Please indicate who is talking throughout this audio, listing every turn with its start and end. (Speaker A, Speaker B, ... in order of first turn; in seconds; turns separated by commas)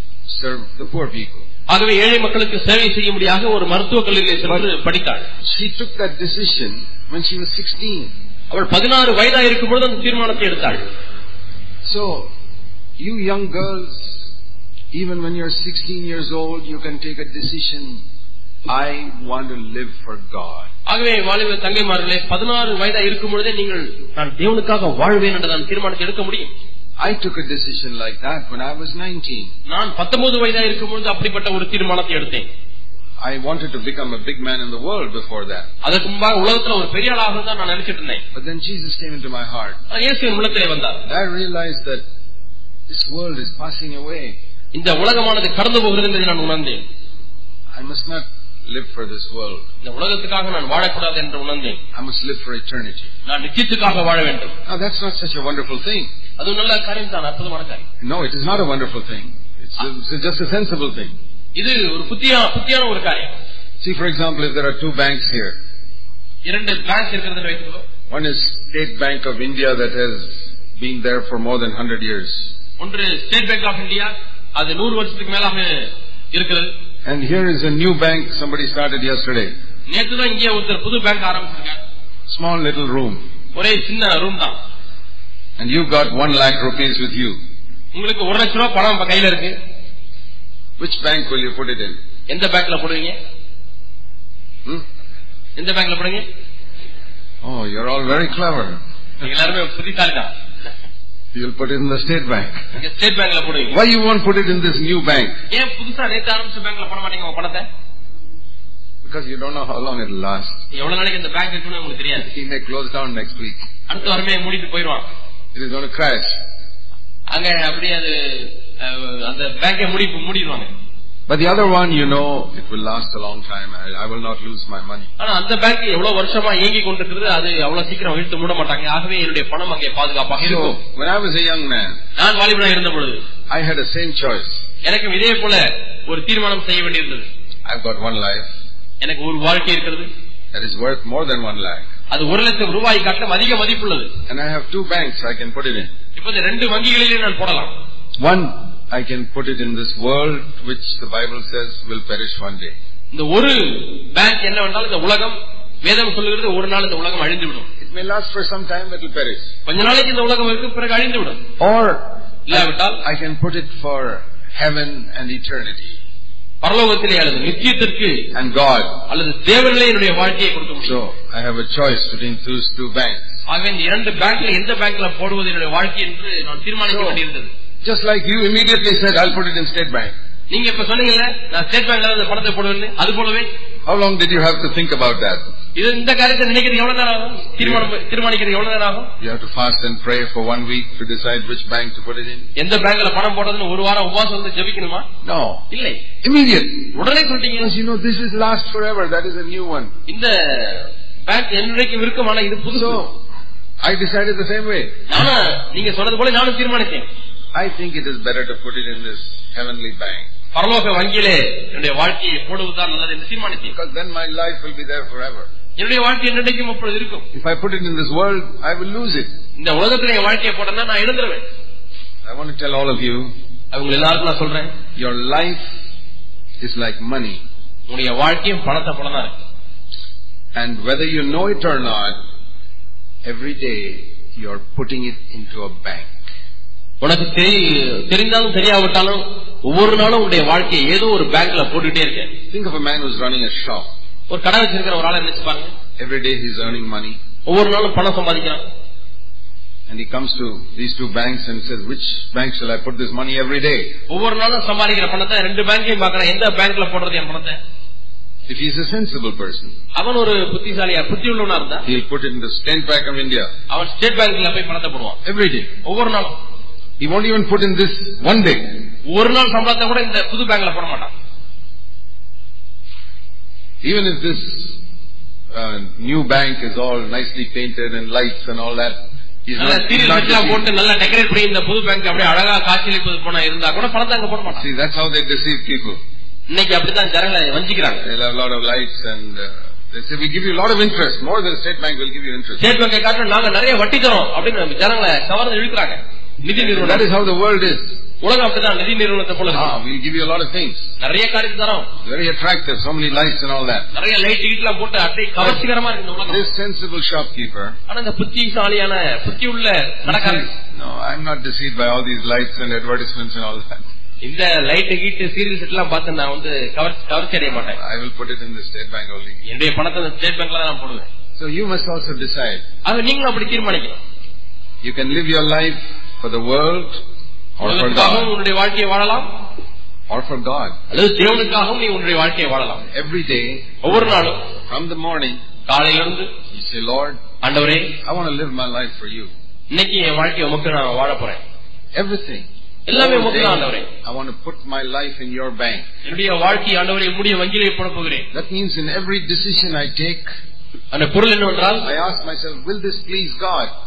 Speaker A: 0.3-1.4, Speaker B: 1.7-5.3, Speaker A: 5.4-8.1, Speaker B: 8.5-10.8, Speaker A: 11.8-12.3, Speaker A: 13.0-14.3, Speaker A: 14.9-18.0, Speaker A: 18.7-20.7, Speaker B: 20.9-26.5, Speaker A: 27.0-29.5, Speaker B: 29.7-32.5, Speaker A: 33.2-35.7, Speaker B: 35.8-38.2, Speaker A: 38.3-39.8, Speaker B: 39.9-41.0, Speaker A: 41.0-42.0, Speaker A: 42.9-44.4, Speaker B: 44.7-46.8, Speaker A: 47.7-49.6, Speaker B: 49.8-51.8, Speaker A: 51.9-53.1, Speaker B: 53.2-54.5, Speaker A: 54.7-56.1, Speaker B: 56.4-57.8, Speaker A: 58.0-61.1, Speaker B: 61.6-63.3, Speaker A: 63.8-65.6, Speaker B: 66.5-67.8, Speaker A: 68.1-72.5, Speaker B: 72.8-76.7, Speaker A: 77.0-79.5, Speaker B: 79.9-81.8, Speaker A: 82.3-83.2, Speaker B: 83.5-84.6, Speaker A: 85.6-87.4, Speaker B: 87.9-89.5, Speaker A: 90.8-92.0, Speaker B: 92.3-93.2, Speaker B: 95.6-96.2, Speaker A: 97.4-98.8, Speaker B: 99.2-100.3, Speaker A: 101.3-102.6, Speaker B: 102.7-103.8, Speaker A: 103.7-105.4, Speaker B: 105.5-107.7, Speaker A: 109.0-110.6, Speaker B: 110.7-112.3, Speaker A: 112.2-113.7, Speaker B: 113.9-115.0, Speaker A: 115.5-116.4, Speaker B: 117.3-120.7, Speaker A: 121.3-125.1, Speaker B: 125.2-130.8, Speaker A: 130.4-132.0, Speaker B: 132.2-133.2, Speaker A: 133.5-134.6, Speaker B: 134.8-137.3, Speaker A: 137.7-138.5, Speaker B: 139.0-140.1, Speaker A: 140.5-141.9, Speaker B: 142.1-144.1, Speaker A: 144.3-145.9, Speaker B: 146.2-147.7, Speaker A: 148.2-152.8, Speaker B: 153.1-157.7, Speaker A: 157.8-159.5, Speaker B: 159.7-161.4, Speaker A: 161.6-166.0, Speaker B: 162.5-163.0, Speaker B: 166.6-168.3, Speaker A: 168.3-169.0, Speaker B: 169.1-171.0, Speaker A: 170.8-173.2, Speaker B: 173.5-177.5, Speaker A: 176.8-177.2, Speaker A: 177.8-180.1, Speaker B: 180.5-183.5, Speaker A: 183.9-185.4, Speaker B: 185.8-189.1, Speaker A: 189.2-192.5, Speaker B: 192.6-195.1, Speaker A: 195.2-195.7, Speaker B: 195.7-196.1, Speaker A: 196.2-196.9, Speaker B: 196.9-197.7, Speaker A: 197.6-199.9, Speaker B: 200.1-203.1, Speaker A: 202.7-203.2, Speaker A: 203.8-204.9, Speaker B: 205.1-207.1, Speaker A: 207.5-210.3, Speaker B: 210.5-213.7, Speaker A: 213.7-215.5, Speaker B: 215.8-217.3, Speaker A: 217.3-219.3, Speaker B: 219.6-221.4, Speaker A: 222.2-223.3, Speaker B: 223.7-224.7, Speaker A: 225.0-225.7, Speaker A: 226.6-227.4, Speaker B: 227.9-229.4, Speaker A: 230.5-232.2, Speaker A: 233.2-236.1, Speaker B: 237.0-242.3, Speaker A: 242.5-243.9, Speaker B: 244.3-245.7, Speaker A: 246.0-247.2, Speaker B: 247.5-248.6, Speaker A: 249.9-254.0, Speaker B: 254.1-257.6, Speaker A: 258.5-259.8, Speaker B: 259.9-261.9, Speaker A: 261.9-263.5, Speaker B: 263.7-265.2, Speaker A: 265.2-265.7, Speaker B: 265.8-266.4, Speaker A: 267.0-268.9, Speaker B: 269.1-271.1, Speaker A: 273.8-274.8, Speaker A: 275.5-280.7, Speaker B: 279.6-284.7, Speaker A: 284.5-286.0, Speaker B: 286.5-288.0, Speaker A: 288.0-292.7, Speaker B: 292.6-297.1, Speaker A: 296.6-298.0, Speaker B: 298.2-299.8, Speaker A: 299.5-300.8, Speaker B: 301.0-301.9, Speaker A: 302.0-303.9, Speaker B: 303.9-306.4, Speaker A: 306.2-307.8, Speaker B: 307.9-310.5, Speaker A: 310.1-313.9, Speaker B: 314.2-317.8, Speaker A: 317.7-319.4, Speaker B: 319.5-321.1, Speaker A: 321.4-322.6, Speaker B: 322.8-324.0, Speaker A: 324.8-327.0, Speaker A: 327.6-328.3, Speaker B: 327.6-329.3, Speaker A: 330.1-330.8, Speaker B: 330.9-332.9, Speaker A: 332.9-333.9, Speaker B: 333.8-334.4, Speaker A: 334.7-335.4, Speaker B: 335.7-336.3, Speaker A: 336.5-337.2, Speaker B: 337.4-337.9, Speaker A: 338.0-339.3, Speaker B: 339.7-341.4, Speaker A: 341.9-345.9, Speaker B: 342.9-343.9, Speaker B: 346.0-348.3, Speaker A: 348.3-350.3, Speaker B: 350.9-351.9, Speaker A: 351.8-353.7